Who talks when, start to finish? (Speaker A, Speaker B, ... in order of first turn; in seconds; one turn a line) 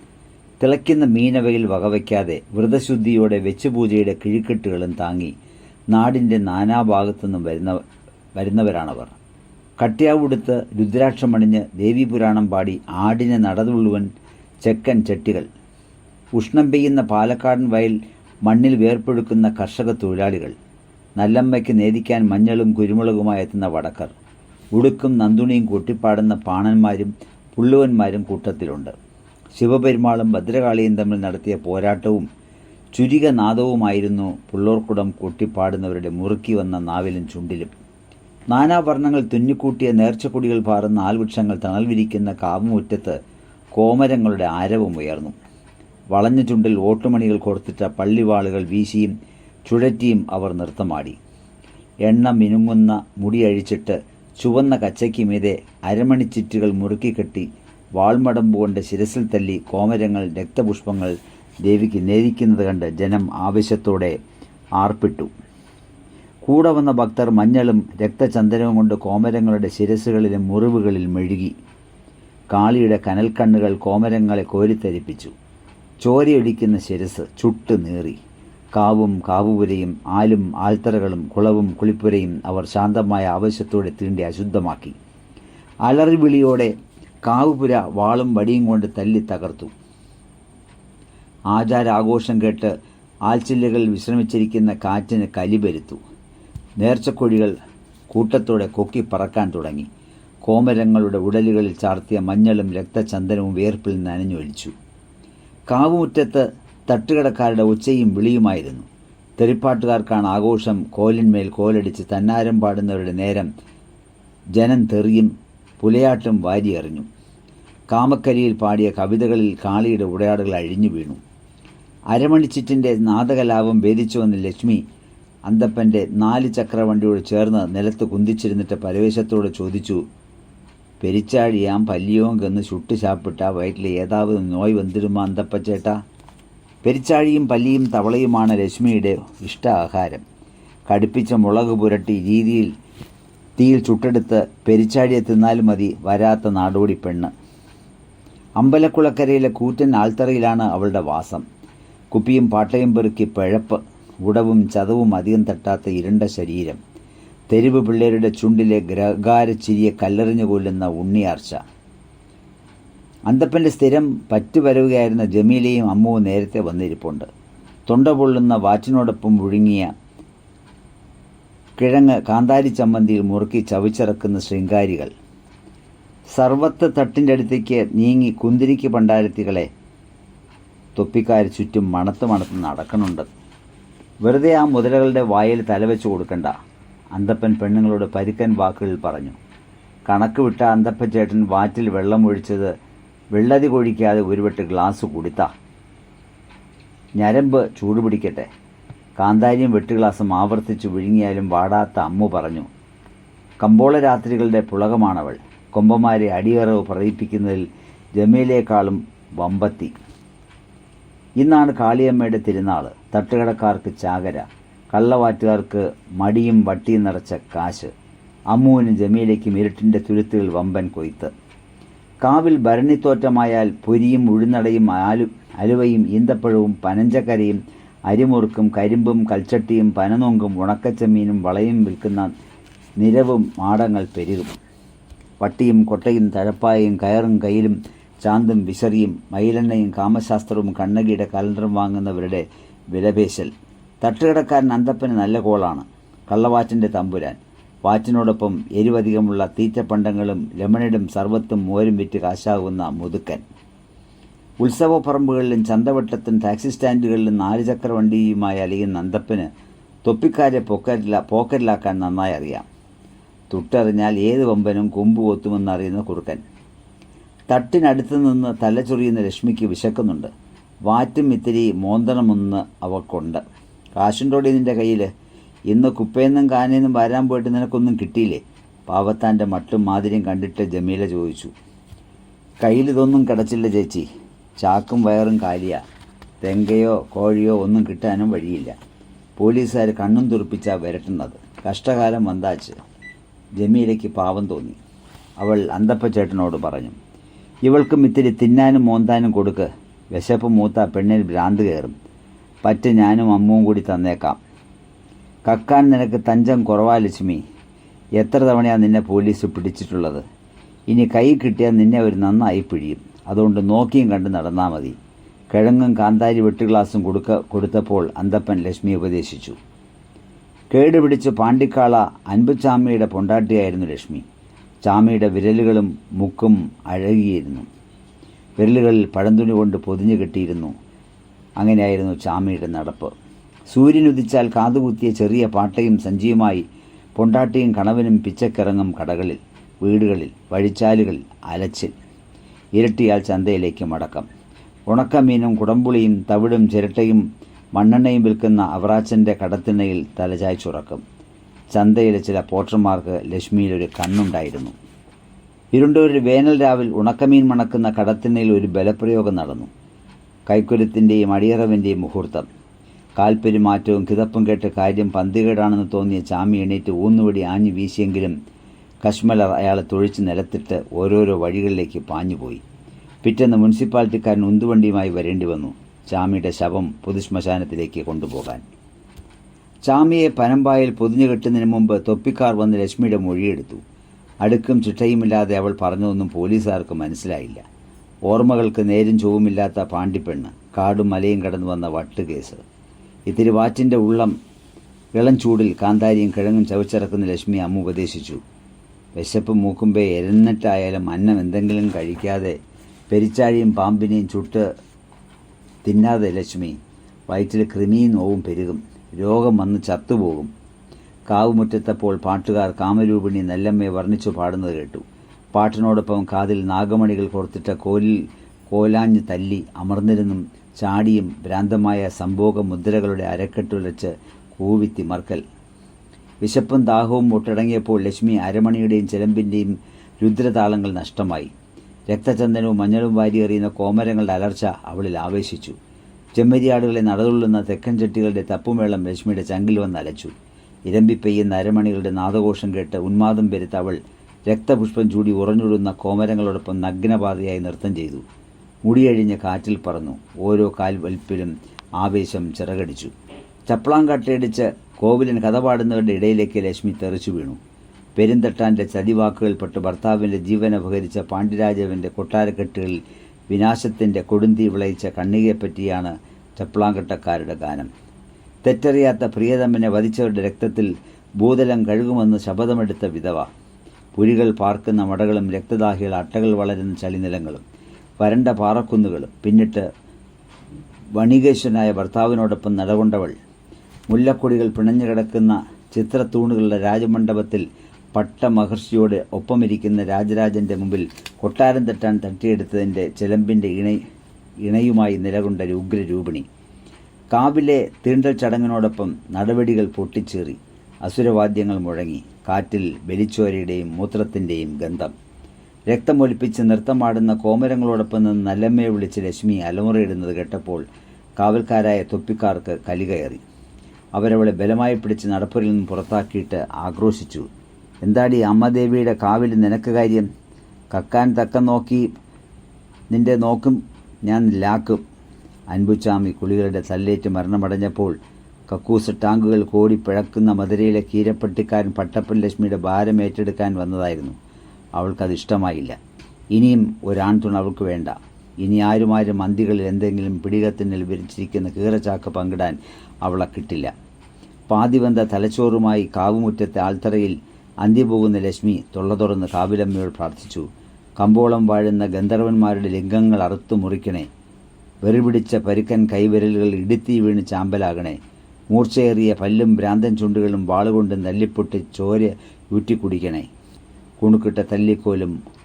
Speaker A: 0.6-5.3
Speaker A: 5.9-7.8
Speaker A: 8.4-9.1
Speaker A: 9.8-14.1
Speaker A: 14.6-15.5
Speaker A: 16.4-20.6
Speaker A: 21.2-24.1
Speaker A: 24.8-28.9
Speaker A: 29.6-32.3
Speaker A: 32.9-37.7
Speaker A: 38.5-43.2
Speaker A: 43.8-45.4
Speaker A: 46.1-49.1
Speaker A: 49.7-51.2
Speaker A: 52.1-64.2
Speaker A: 64.8-65.3
Speaker A: 66.5-71.5
Speaker A: 72.5-75.3
Speaker A: 76.0-78.2
Speaker A: 78.8-85.0
Speaker A: 85.9-86.7
Speaker A: 87.3-89.7
Speaker A: 91.5-92.7
Speaker A: 93.3-96.0
Speaker A: 96.8-97.5
Speaker A: 98.1-99.9
Speaker A: 100.5-104.7
Speaker A: 105.7-108.9
Speaker A: 109.4-113.5
Speaker A: 114.6-117.1
Speaker A: 117.9-121.2
Speaker A: 122.1-124.8
Speaker A: 125.5-130.0
Speaker A: 131.0-136.0
Speaker A: 136.8-140.2
Speaker A: 140.9-142.7
Speaker A: 143.6-147.3
Speaker A: 148.6-151.4
Speaker A: 152.1-156.8
Speaker A: 157.5-161.6
Speaker A: 163.3-167.3
Speaker A: 167.9-169.9
Speaker A: 171.8-175.1
Speaker A: 176.4-179.7
Speaker A: 181.0-183.3
Speaker A: 184.2-186.6
Speaker A: 187.2-189.4
Speaker A: 190.1-192.7
Speaker A: 193.3-195.5
Speaker A: 197.2-198.5
Speaker A: 199.2-202.7
Speaker A: 203.6-207.7
Speaker A: 208.2-209.9
Speaker A: 211.4-217.9
Speaker A: 218.5-221.3
Speaker A: 222.2-232.3
Speaker A: 233.0-234.6
Speaker A: 235.4-253.4
Speaker A: 254.6-259.5
Speaker A: 260.1-262.7
Speaker A: 263.5-266.4
Speaker A: 267.5-270.3
Speaker A: 270.9-273.4
Speaker A: 274.0-275.1
Speaker A: 275.7-281.5
Speaker A: 282.6-284.1
Speaker A: 284.6-285.8
Speaker A: 286.4-288.8
Speaker A: 289.4-292.8
Speaker A: 293.6-294.8
Speaker A: 295.4-297.0
Speaker A: 297.7-301.9
Speaker A: 302.6-304.4
Speaker A: 305.5-307.4
Speaker A: 308.2-310.2
Speaker A: 310.9-315.0
Speaker A: 315.5-319.6
Speaker A: 320.7-324.2
Speaker A: 324.9-327.7
Speaker A: 328.6-330.7
Speaker A: 331.6-333.1
Speaker A: 333.7-336.6
Speaker A: 337.2-341.9
Speaker A: 342.8-344.3
Speaker A: 344.9-347.2
Speaker A: 347.8-351.0
Speaker A: 351.7-354.8
Speaker A: 355.7-359.7
Speaker A: 360.5-362.5
Speaker A: 363.2-368.4
Speaker A: 369.0-372.6
Speaker A: 373.2-378.6
Speaker A: 379.9-383.8
Speaker A: 384.4-387.6
Speaker A: 388.3-392.6
Speaker A: 393.3-394.4
Speaker A: 395.1-398.4
Speaker A: 399.1-402.6
Speaker A: 403.1-404.7
Speaker A: 405.9-406.8
Speaker A: 407.3-410.5
Speaker A: 411.3-415.0
Speaker A: 415.5-425.4
Speaker A: 426.4-431.5
Speaker A: 432.1-435.8
Speaker A: 436.4-440.3
Speaker A: 440.9-448.2
Speaker A: 448.9-453.1
Speaker A: 453.7-457.6
Speaker A: 458.2-467.9
Speaker A: 468.6-473.5
Speaker A: 474.2-477.6
Speaker A: 478.2-479.9
Speaker A: 481.2-483.4
Speaker A: 484.1-494.0
Speaker A: 494.6-496.5
Speaker A: 497.3-505.1
Speaker A: 505.9-510.8
Speaker A: 511.4-513.4
Speaker A: 514.2-517.5
Speaker A: 518.0-520.3
Speaker A: 520.9-522.1
Speaker A: 523.1-525.0
Speaker A: 525.7-528.1
Speaker A: 528.7-534.4
Speaker A: 535.0-536.0
Speaker A: 536.5-543.9
Speaker A: 544.7-550.7
Speaker A: 551.2-554.3
Speaker A: 555.0-558.2
Speaker A: 558.7-563.5
Speaker A: 564.2-565.4